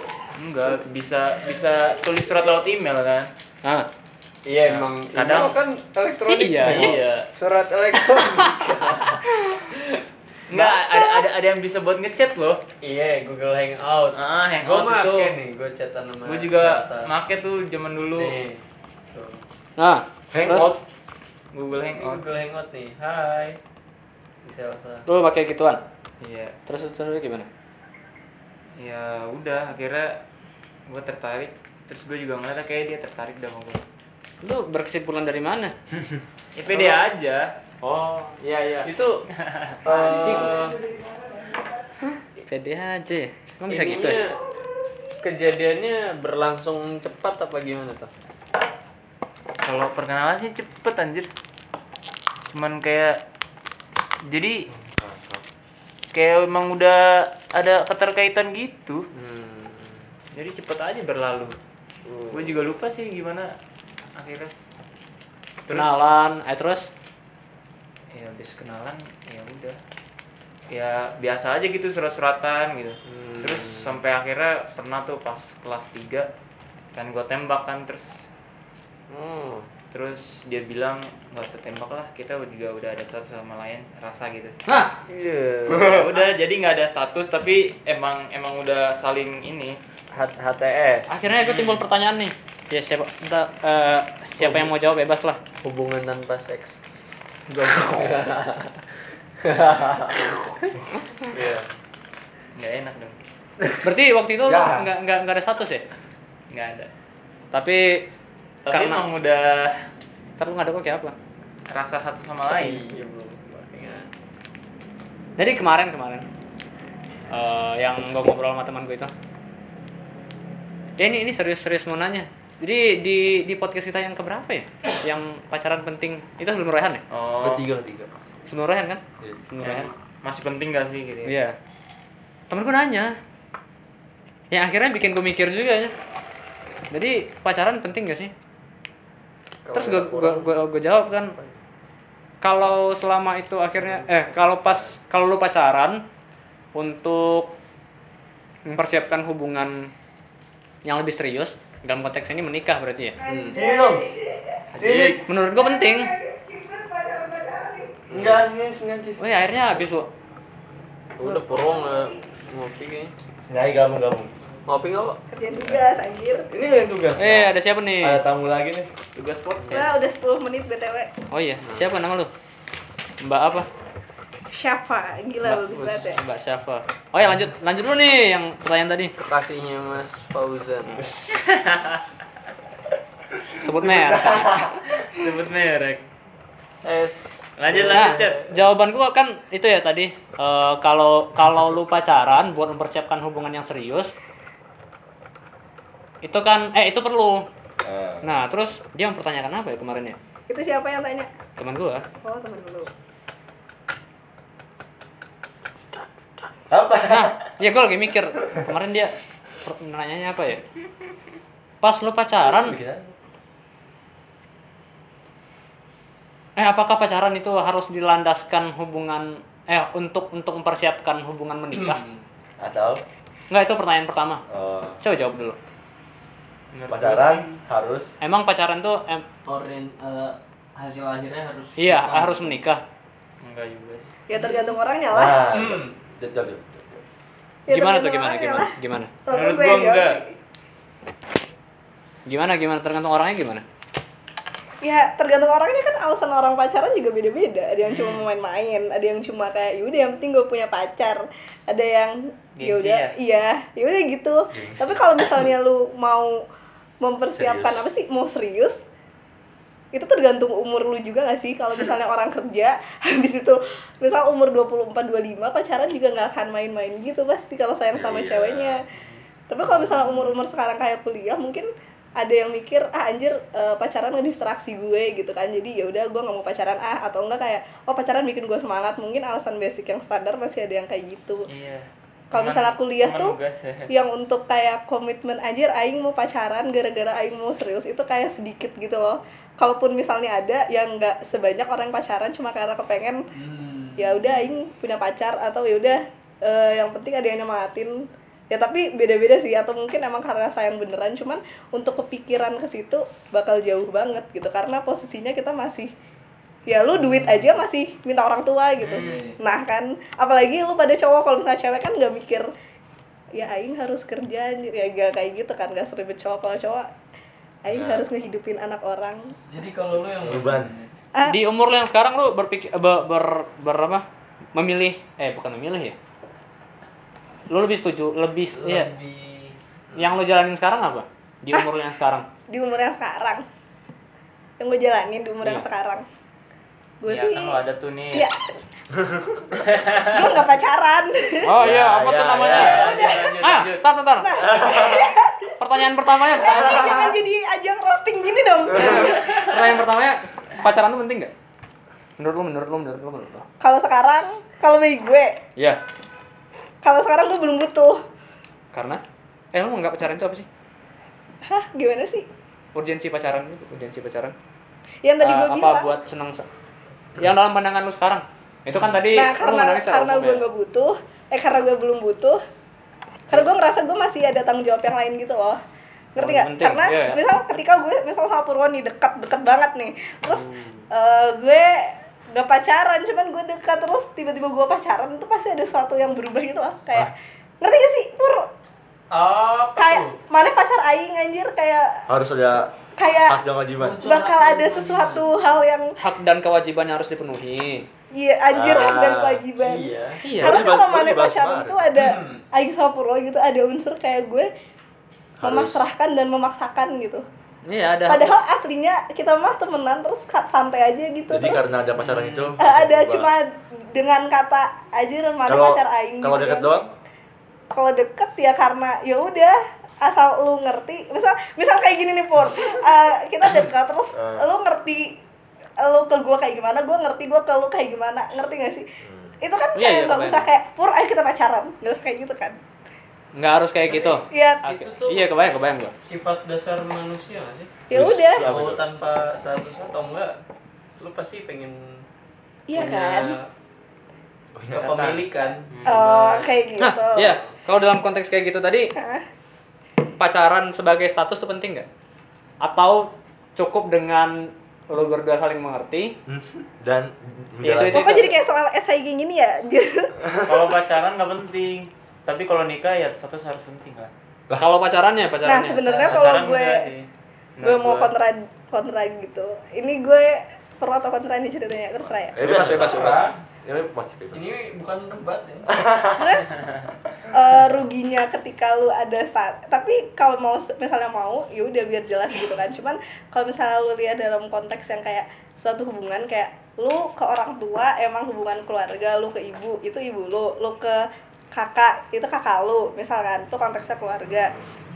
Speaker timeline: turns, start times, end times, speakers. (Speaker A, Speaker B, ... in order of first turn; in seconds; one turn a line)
Speaker A: 0.4-3.3
Speaker B: 3.6-3.9
Speaker C: 4.5-10.0
Speaker A: 4.7-5.6
Speaker B: 6.3-7.0
Speaker A: 6.7-7.3
Speaker B: 8.1-8.4
Speaker B: 9.2-9.6
Speaker A: 10.5-12.6
Speaker C: 12.8-17.1
Speaker A: 14.1-15.4
Speaker A: 16.3-18.4
Speaker C: 18.1-19.4
Speaker B: 19.8-20.8
Speaker D: 20.3-20.8
Speaker A: 21.5-22.2
Speaker C: 21.8-23.6
Speaker C: 24.4-25.1
Speaker B: 25.1-25.8
Speaker A: 26.2-26.6
Speaker B: 26.7-27.5
Speaker A: 28.8-30.2
Speaker A: 30.9-33.8
Speaker B: 34.4-35.7
Speaker A: 36.6-37.5
Speaker B: 37.8-38.9
Speaker C: 38.9-39.2
Speaker A: 39.4-39.8
Speaker C: 39.8-40.8
Speaker B: 39.9-40.5
Speaker B: 42.4-44.2
Speaker C: 43.7-44.4
Speaker C: 45.2-48.1
Speaker A: 49.6-51.3
Speaker A: 52.5-53.2
Speaker A: 54.3-54.7
Speaker D: 54.7-55.4
Speaker A: 56.1-59.1
Speaker C: 59.1-60.1
Speaker A: 60.3-61.6
Speaker C: 62.1-62.6
Speaker A: 62.3-63.5
Speaker A: 64.2-64.5
Speaker A: 65.7-66.0
Speaker B: 65.7-66.9
Speaker A: 68.1-69.8
Speaker A: 70.7-76.3
Speaker C: 73.0-74.0
Speaker A: 77.0-78.3
Speaker C: 79.1-79.7
Speaker A: 79.9-84.6
Speaker B: 84.7-85.0
Speaker C: 85.1-86.0
Speaker D: 85.7-86.1
Speaker A: 85.7-89.8
Speaker C: 90.1-91.1
Speaker B: 91.1-95.4
Speaker A: 91.1-91.8
Speaker C: 94.4-94.7
Speaker C: 95.6-96.8
Speaker C: 97.5-98.8
Speaker C: 99.4-100.7
Speaker D: 100.8-101.7
Speaker A: 102.5-103.2
Speaker B: 103.8-105.8
Speaker D: 104.5-104.9
Speaker A: 106.5-106.9
Speaker B: 107.5-108.1
Speaker A: 108.7-109.8
Speaker B: 108.7-109.1
Speaker B: 110.4-111.1
Speaker A: 111.7-112.8
Speaker C: 112.5-114.1
Speaker B: 115.4-116.3
Speaker B: 117.3-119.1
Speaker B: 121.0-127.0
Speaker A: 127.1-127.7
Speaker D: 127.4-128.1
Speaker B: 128.5-129.9
Speaker A: 129.6-131.4
Speaker B: 131.2-131.6
Speaker B: 132.5-133.2
Speaker B: 134.5-135.9
Speaker B: 136.9-138.3
Speaker C: 139.7-140.7
Speaker B: 139.7-141.4
Speaker C: 141.2-141.6
Speaker B: 142.4-146.0
Speaker B: 146.8-147.6
Speaker B: 148.7-149.9
Speaker B: 150.8-153.2
Speaker E: 153.2-154.6
Speaker C: 153.3-153.6
Speaker D: 153.5-154.1
Speaker D: 154.7-155.2
Speaker A: 154.8-155.2
Speaker B: 155.3-156.1
Speaker E: 155.4-158.0
Speaker C: 158.1-158.4
Speaker D: 158.1-159.2
Speaker B: 159.2-160.1
Speaker C: 161.2-163.1
Speaker E: 161.5-162.2
Speaker D: 163.4-164.3
Speaker C: 164.7-165.2
Speaker E: 165.3-166.5
Speaker D: 165.6-165.9
Speaker D: 166.5-168.9
Speaker B: 167.2-168.2
Speaker A: 169.2-170.0
Speaker C: 169.6-169.9
Speaker E: 169.7-171.1
Speaker B: 171.3-172.3
Speaker C: 171.6-171.9
Speaker B: 173.2-173.7
Speaker E: 174.5-176.2
Speaker B: 175.4-179.1
Speaker C: 175.7-176.1
Speaker C: 179.2-181.1
Speaker A: 181.3-182.0
Speaker B: 183.6-184.6
Speaker D: 183.8-184.5
Speaker A: 184.5-186.0
Speaker C: 186.8-188.6
Speaker A: 187.6-188.4
Speaker B: 187.9-194.1
Speaker B: 196.2-197.5
Speaker D: 197.8-198.3
Speaker B: 198.2-200.2
Speaker E: 200.5-201.3
Speaker B: 201.6-202.1
Speaker E: 202.2-202.9
Speaker D: 206.7-207.4
Speaker B: 207.1-209.1
Speaker B: 209.6-210.6
Speaker B: 211.8-212.8
Speaker D: 212.4-213.1
Speaker B: 216.6-222.0
Speaker C: 221.7-222.2
Speaker D: 222.6-223.0
Speaker B: 223.5-224.4
Speaker D: 224.5-225.0
Speaker B: 225.0-225.6
Speaker A: 226.7-227.6
Speaker D: 226.9-228.1
Speaker B: 228.2-229.3
Speaker C: 229.4-232.6
Speaker B: 231.8-232.8
Speaker A: 233.4-234.1
Speaker E: 234.3-235.4
Speaker C: 234.3-234.8
Speaker D: 235.1-237.0
Speaker C: 235.5-235.9
Speaker E: 237.7-238.7
Speaker B: 237.7-239.1
Speaker E: 239.3-240.3
Speaker A: 239.3-240.2
Speaker B: 242.3-243.6
Speaker E: 244.8-256.4
Speaker A: 247.8-248.3
Speaker A: 252.6-253.2
Speaker D: 254.5-255.4
Speaker E: 257.0-258.8
Speaker D: 257.4-257.9
Speaker E: 259.9-268.8
Speaker D: 267.9-268.8
Speaker A: 268.9-269.2
Speaker E: 269.5-281.5
Speaker A: 281.5-283.9
Speaker E: 282.3-283.4
Speaker E: 283.9-293.3
Speaker C: 293.3-294.5
Speaker E: 294.0-305.9
Speaker E: 306.7-312.5
Speaker C: 307.1-307.4
Speaker A: 308.8-309.1
Speaker C: 308.9-309.4
Speaker E: 313.4-316.9
Speaker E: 317.6-319.3
Speaker D: 317.7-318.1
Speaker C: 319.5-320.9
Speaker D: 320.2-320.7
Speaker B: 321.2-326.0
Speaker B: 327.5-328.9
Speaker C: 328.5-330.1
Speaker B: 330.0-332.3
Speaker E: 332.5-333.4
Speaker E: 334.6-336.1
Speaker E: 337.0-337.6
Speaker A: 337.1-338.3
Speaker E: 338.1-338.4
Speaker D: 338.9-339.6
Speaker A: 339.6-340.4
Speaker E: 340.1-341.5
Speaker B: 341.4-344.7
Speaker D: 341.6-342.8
Speaker A: 342.3-343.9
Speaker E: 342.5-343.5
Speaker E: 344.2-349.5
Speaker D: 344.4-345.1
Speaker B: 345.6-347.1
Speaker D: 346.4-347.1
Speaker D: 348.7-349.2
Speaker B: 348.7-351.3
Speaker B: 352.2-353.5
Speaker E: 353.6-355.4
Speaker E: 356.8-358.0
Speaker B: 358.7-359.0
Speaker B: 359.5-360.5
Speaker E: 361.5-362.3
Speaker B: 362.8-364.4
Speaker E: 365.0-365.9
Speaker B: 365.2-366.5
Speaker B: 367.2-370.5
Speaker E: 369.1-372.4
Speaker E: 373.3-375.6
Speaker E: 376.1-388.5
Speaker B: 376.2-377.2
Speaker C: 389.1-390.2
Speaker E: 389.8-392.0
Speaker D: 392.1-392.7
Speaker E: 393.0-393.4
Speaker D: 393.3-394.1
Speaker C: 393.8-395.3
Speaker E: 394.0-395.9
Speaker B: 396.0-397.9
Speaker E: 398.1-404.5
Speaker D: 398.5-399.4
Speaker C: 399.6-400.2
Speaker B: 400.2-400.6
Speaker D: 400.4-401.9
Speaker C: 401.9-402.4
Speaker D: 405.4-405.9
Speaker E: 405.4-407.2
Speaker B: 407.7-408.4
Speaker E: 408.1-411.6
Speaker D: 411.3-413.3
Speaker C: 412.0-412.6
Speaker E: 412.6-416.7
Speaker D: 415.5-416.9
Speaker E: 417.7-425.2
Speaker D: 424.1-424.5
Speaker E: 425.8-428.9
Speaker D: 429.0-429.4
Speaker E: 429.4-432.6
Speaker B: 429.8-430.5
Speaker B: 433.4-435.9
Speaker C: 433.9-435.3
Speaker E: 434.3-434.6
Speaker C: 436.0-437.7
Speaker E: 437.9-438.5
Speaker D: 437.9-438.9
Speaker C: 438.4-440.4
Speaker C: 441.0-442.1
Speaker E: 442.7-443.4
Speaker C: 442.7-443.5
Speaker D: 444.6-445.2
Speaker C: 444.7-446.6
Speaker A: 445.7-446.0
Speaker E: 445.9-447.3
Speaker B: 446.8-448.9
Speaker E: 449.0-449.2
Speaker B: 450.2-451.9
Speaker B: 452.6-456.2
Speaker D: 456.3-458.2
Speaker B: 457.6-458.4
Speaker E: 457.9-460.3
Speaker D: 460.2-460.7
Speaker A: 460.5-464.1
Speaker B: 464.6-466.2
Speaker E: 465.4-466.9
Speaker A: 465.9-468.1
Speaker E: 467.6-472.4
Speaker D: 472.3-474.6
Speaker B: 472.4-473.3
Speaker C: 472.5-473.3
Speaker C: 474.3-475.8
Speaker D: 475.7-476.4
Speaker E: 476.2-476.5
Speaker E: 477.3-494.5